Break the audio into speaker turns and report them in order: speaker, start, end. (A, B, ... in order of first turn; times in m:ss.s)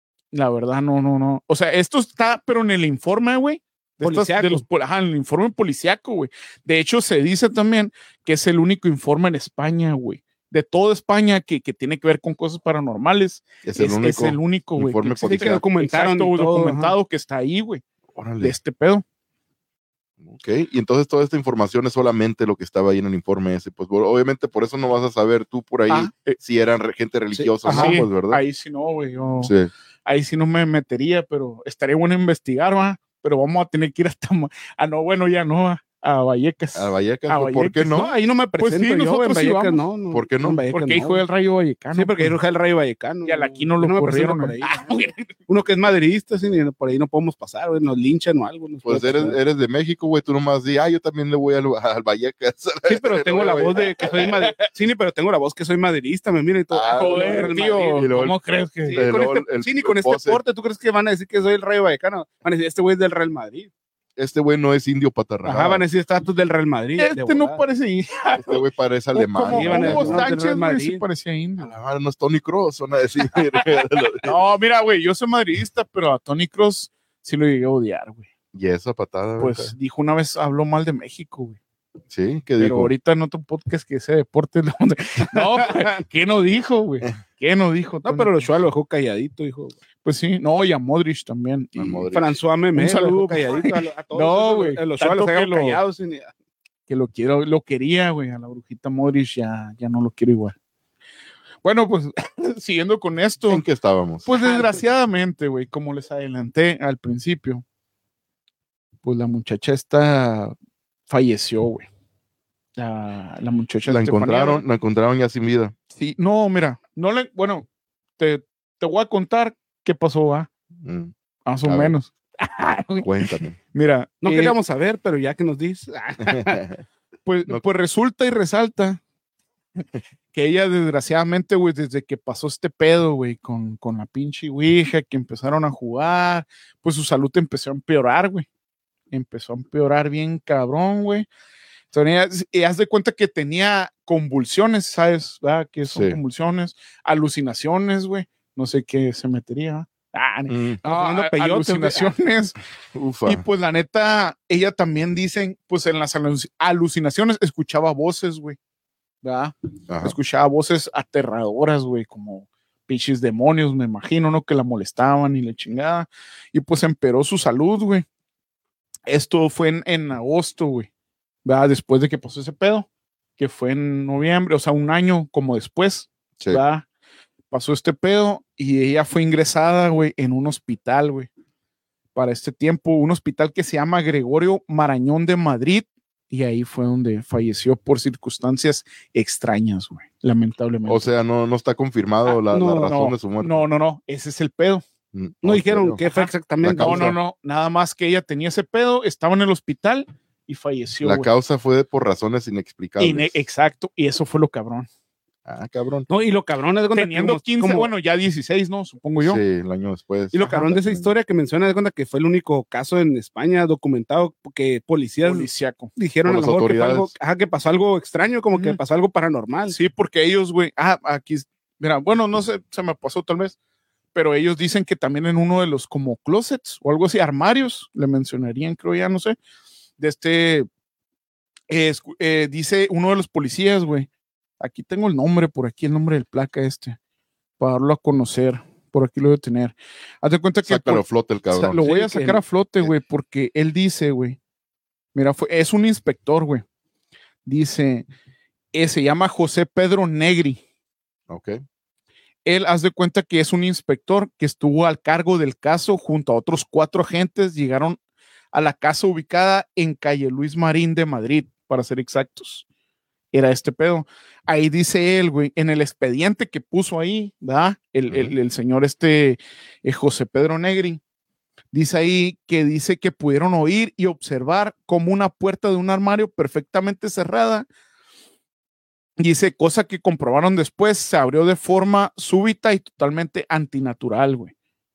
0:00.3-0:17.8 A
0:04.0-0:04.6 B
0:13.6-0:15.6 C
0:15.2-0:16.9 B
0:18.1-0:18.5 C
0:18.4-0:19.0 A
0:20.2-0:28.4 C
0:25.9-0:26.4 A
0:27.3-0:28.0 B
0:27.6-0:29.5 A
0:29.4-0:29.7 C
0:30.0-0:39.8 A
0:36.7-0:38.1 C
0:37.9-0:41.2 B
0:40.1-0:40.6 C
0:40.7-0:42.4 A
0:41.9-0:45.0 B
0:43.2-0:45.3 A
0:45.5-0:49.4 B
0:48.8-0:54.1 C
0:52.8-0:58.1 B
0:56.7-0:58.4 C
0:56.9-0:59.0 A
0:58.8-1:03.7 B
0:58.9-1:00.4 C
1:04.2-1:05.8 C
1:05.4-1:07.6 B
1:07.0-1:08.6 A
1:08.4-1:10.3 C
1:09.1-1:11.7 A
1:09.5-1:11.0 B
1:11.6-1:14.3 C
1:14.2-1:18.3 A
1:18.5-1:19.7 C
1:19.4-1:21.6 A
1:22.1-1:22.9 C
1:22.6-1:28.5 A
1:25.3-1:26.0 B
1:28.0-1:29.8 B
1:30.0-1:32.1 A
1:31.8-1:32.3 C
1:32.1-1:36.3 B
1:32.8-1:35.8 A
1:36.9-1:40.5 A
1:41.6-1:43.6 A
1:43.5-1:44.3 C
1:44.2-1:47.6 A
1:44.4-1:44.8 B
1:49.0-1:50.5 A
1:51.1-1:51.9 A
1:52.8-1:54.6 A
1:53.8-1:55.7 C
1:55.9-2:00.5 A
2:00.8-2:01.1 C
2:01.4-2:04.5 A
2:01.6-2:01.9 C
2:03.0-2:03.6 C
2:04.2-2:06.6 B
2:06.3-2:06.8 C
2:07.2-2:09.0 A
2:09.8-2:18.5 A
2:19.1-2:21.3 A
2:21.9-2:32.6 A
2:25.9-2:26.2 C
2:30.5-2:30.8 C
2:30.8-2:32.1 B
2:32.9-2:33.4 C
2:33.2-2:38.6 A
2:39.2-2:48.0 A
2:39.9-2:40.1 C
2:49.1-2:50.9 A
2:51.4-2:52.9 A
2:53.4-2:56.8 A
2:57.5-3:01.3 A
3:02.1-3:11.1 A
3:10.8-3:13.6 C
3:12.5-3:12.9 B
3:12.8-3:14.8 A
3:15.1-3:16.0 C
3:15.4-3:17.1 B
3:16.0-3:21.3 A
3:16.6-3:17.2 C
3:21.0-3:23.3 C
3:23.0-3:24.9 A
3:25.4-3:26.1 C
3:26.1-3:27.9 B
3:26.9-3:29.4 A
3:29.2-3:31.1 C
3:30.3-3:39.8 B
3:35.2-3:35.9 A
3:36.2-3:37.1 C
3:38.5-3:38.8 A
3:39.7-3:43.6 A
3:44.1-3:49.4 A
3:50.0-3:50.7 A
3:51.7-3:57.0 A
3:57.6-4:04.4 A
4:00.6-4:01.8 C
4:01.8-4:02.4 B
4:05.1-4:06.6 A
4:07.4-4:08.1 A
4:08.7-4:10.6 A
4:11.3-4:11.6 C
4:12.4-4:18.0 A
4:18.5-4:22.6 A
4:23.3-4:31.0 A
4:31.7-4:37.7 A
4:39.2-4:44.5 A